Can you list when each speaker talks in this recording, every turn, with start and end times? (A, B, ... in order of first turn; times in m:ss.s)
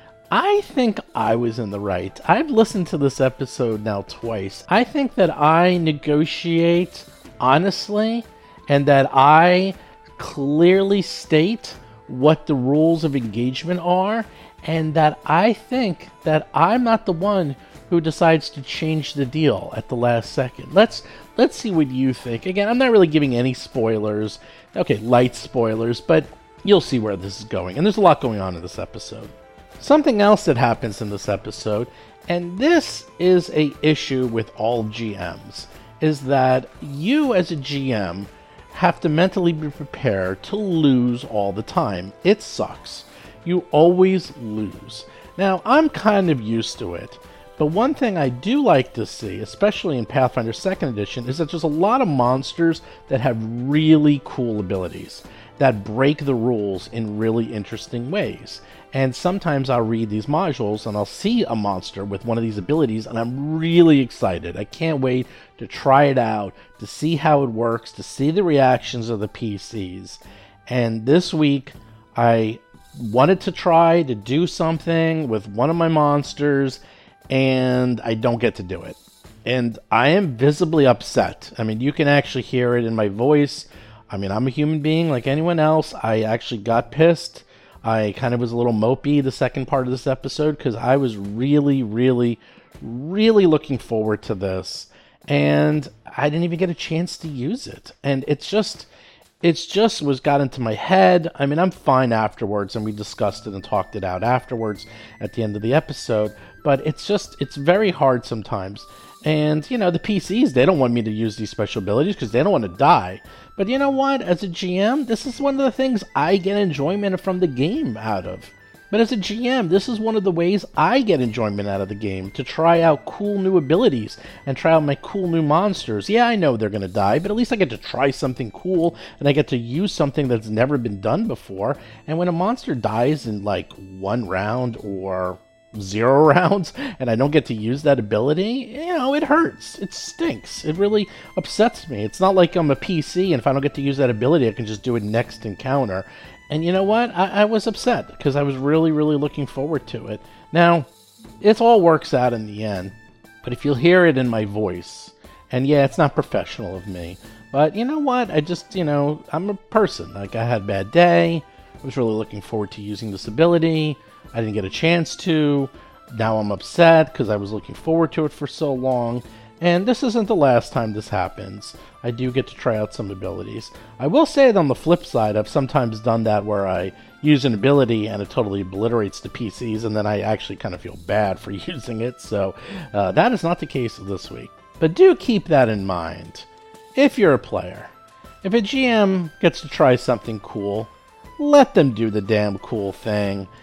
0:00.3-1:38.9 A
1:39.4-2:30.9 A
2:31.4-3:07.9 A
3:08.4-3:13.5 A